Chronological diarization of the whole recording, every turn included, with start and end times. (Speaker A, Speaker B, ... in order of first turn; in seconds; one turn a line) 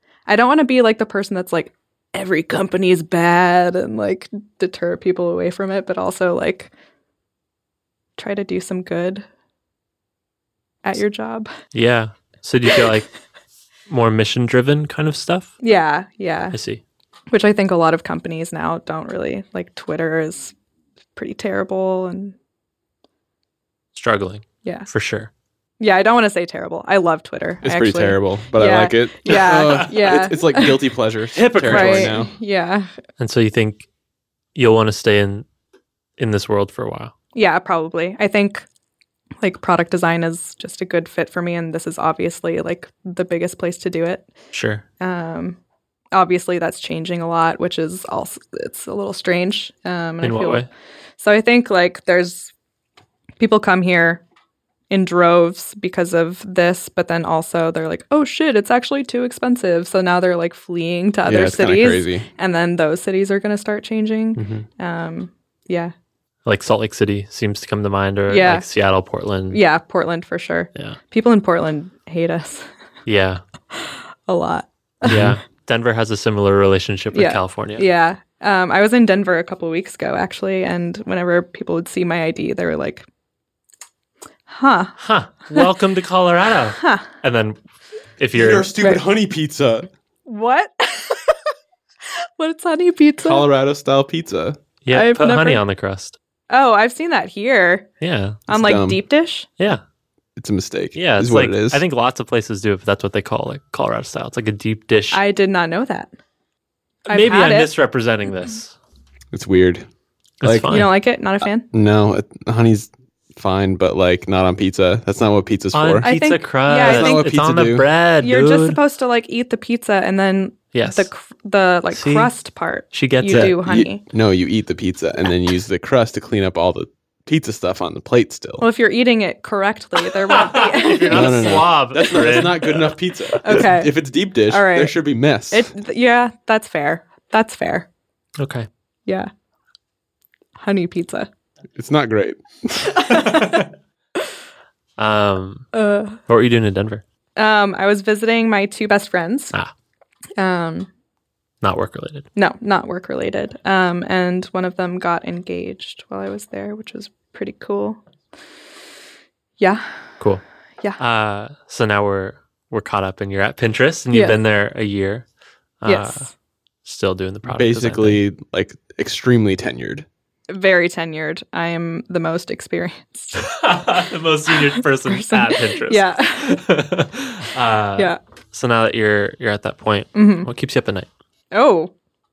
Speaker A: 0.3-6.7
Speaker A: 8.2-9.2
Speaker A: 10.8-11.5
Speaker B: 11.7-13.1
Speaker B: 13.9-15.5
Speaker A: 15.6-16.6
Speaker B: 16.5-16.8
Speaker A: 17.3-20.5
Speaker A: 21.1-22.3
Speaker B: 23.9-25.3
Speaker A: 24.6-24.9
Speaker A: 25.8-30.8
Speaker C: 27.6-32.3
Speaker B: 31.3-32.2
Speaker A: 31.7-32.9
Speaker B: 33.2-33.9
Speaker B: 34.5-35.5
Speaker B: 36.2-37.1
Speaker A: 37.3-38.7
Speaker A: 39.4-44.3
Speaker B: 44.5-44.8
Speaker A: 45.0-45.6
Speaker A: 46.1-50.6
Speaker B: 50.2-50.7
Speaker A: 51.2-52.5
Speaker A: 53.4-54.2
Speaker A: 54.9-65.9
Speaker C: 61.2-62.2
Speaker B: 64.3-64.7
Speaker B: 66.4-69.6
Speaker A: 68.3-68.6
Speaker A: 69.5-72.7
Speaker B: 73.0-73.4
Speaker A: 73.7-75.4
Speaker B: 75.0-77.9
Speaker A: 77.1-83.0
Speaker A: 84.5-85.0
Speaker B: 85.0-87.6
Speaker A: 86.8-87.1
Speaker B: 88.2-88.7
Speaker C: 88.3-89.9
Speaker A: 90.3-91.5
Speaker A: 92.4-93.4
Speaker C: 93.2-94.6
Speaker B: 94.8-96.2
Speaker A: 94.9-95.6
Speaker A: 96.5-97.9
Speaker B: 98.0-98.4
Speaker A: 98.5-99.5
Speaker C: 98.5-99.0
Speaker C: 100.3-101.8
Speaker B: 100.9-105.2
Speaker A: 105.1-106.1
Speaker A: 107.1-107.7
Speaker B: 107.1-108.7
Speaker C: 109.3-109.9
Speaker C: 110.4-110.8
Speaker B: 110.4-110.9
Speaker A: 110.7-111.7
Speaker C: 111.7-116.1
Speaker B: 115.7-118.8
Speaker A: 116.0-117.3
Speaker C: 116.7-117.8
Speaker A: 118.2-124.0
Speaker B: 120.7-121.1
Speaker B: 121.9-122.3
Speaker B: 122.9-123.6
Speaker C: 123.3-128.6
Speaker A: 128.6-131.7
Speaker B: 130.3-132.9
Speaker C: 131.1-135.7
Speaker A: 133.4-135.0
Speaker A: 135.5-137.9
Speaker B: 138.4-138.7
Speaker A: 140.6-141.3
Speaker C: 141.8-143.1
Speaker A: 142.9-143.6
Speaker B: 145.0-145.7
Speaker A: 145.7-146.2
Speaker B: 146.3-147.0
Speaker A: 147.4-149.5
Speaker A: 150.4-150.9
Speaker B: 151.6-152.3
Speaker A: 152.3-158.0
Speaker A: 159.6-159.8
Speaker B: 161.0-165.2
Speaker A: 164.1-164.4
Speaker B: 165.8-166.3
Speaker A: 165.8-166.3
Speaker B: 166.8-168.2
Speaker C: 167.5-170.1
Speaker A: 170.5-173.5
Speaker B: 173.4-181.1
Speaker A: 174.5-176.6
Speaker A: 180.1-180.5
Speaker A: 181.5-181.9